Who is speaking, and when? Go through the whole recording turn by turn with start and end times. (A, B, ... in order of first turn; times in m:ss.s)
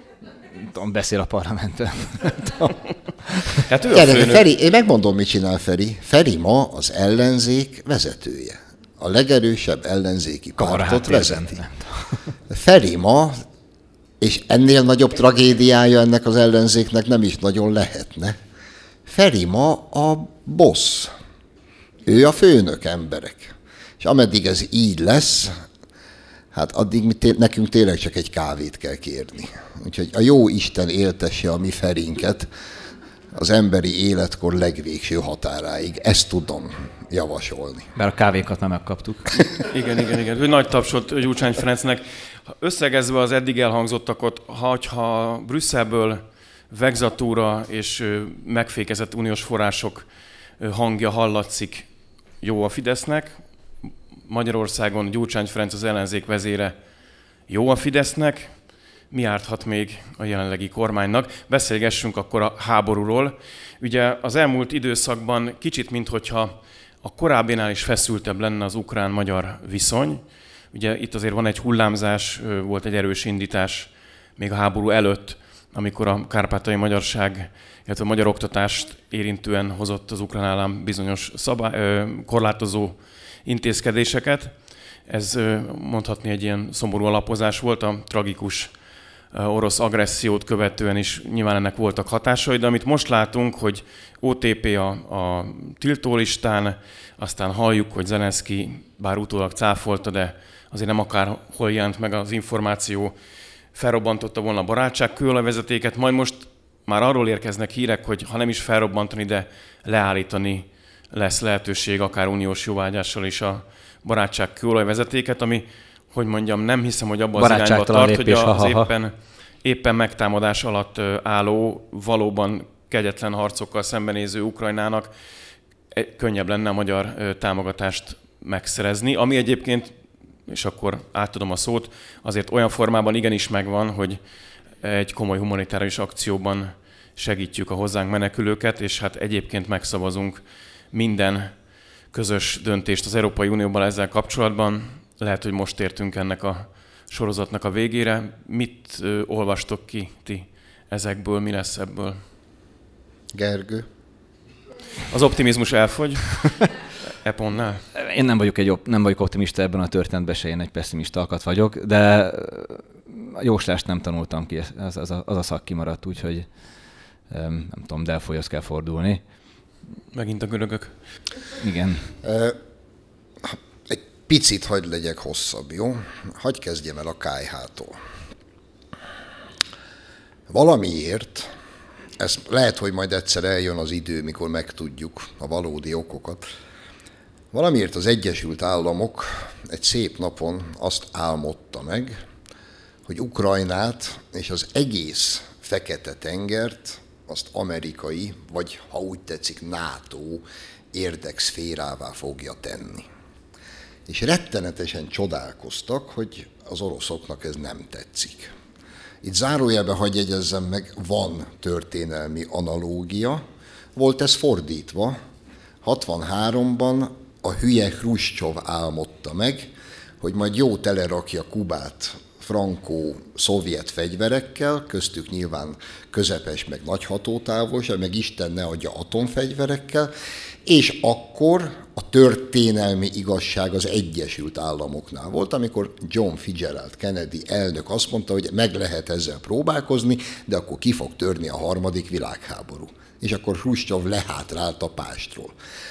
0:00.6-0:03.6 A
0:03.6-0:04.4 B
0:03.9-0:11.6 C
0:10.6-0:12.2 A
0:12.5-0:13.4 C
0:14.2-0:18.4 C
0:19.1-0:21.1 C
0:22.1-0:25.5 C
0:26.5-0:32.5 C
0:33.4-0:37.9 C
0:38.0-0:39.4 A
0:39.7-0:50.1 B
0:50.6-0:51.9 B
0:52.4-0:53.5 B
0:54.2-0:56.7 B
0:57.5-1:28.7 B
1:29.3-1:43.2 B
1:43.7-2:05.1 B
1:57.4-1:58.9 A
2:05.9-2:09.9 B
2:10.5-2:14.2 B
2:14.8-2:32.2 B
2:33.3-2:33.9 C
2:35.1-2:37.8 B
2:38.0-2:46.5 A
2:47.3-2:49.2 A
2:50.1-2:50.9 B
2:51.6-2:52.1 A
2:52.2-2:52.6 C
2:53.4-2:58.0 C
3:00.5-3:01.5 C
3:02.2-3:06.4 C
3:07.5-3:12.2 C
3:13.1-3:23.1 C
3:24.1-3:28.5 C
3:29.2-3:33.4 C
3:34.0-3:35.2 C
3:35.8-3:50.1 C
3:50.7-4:05.6 C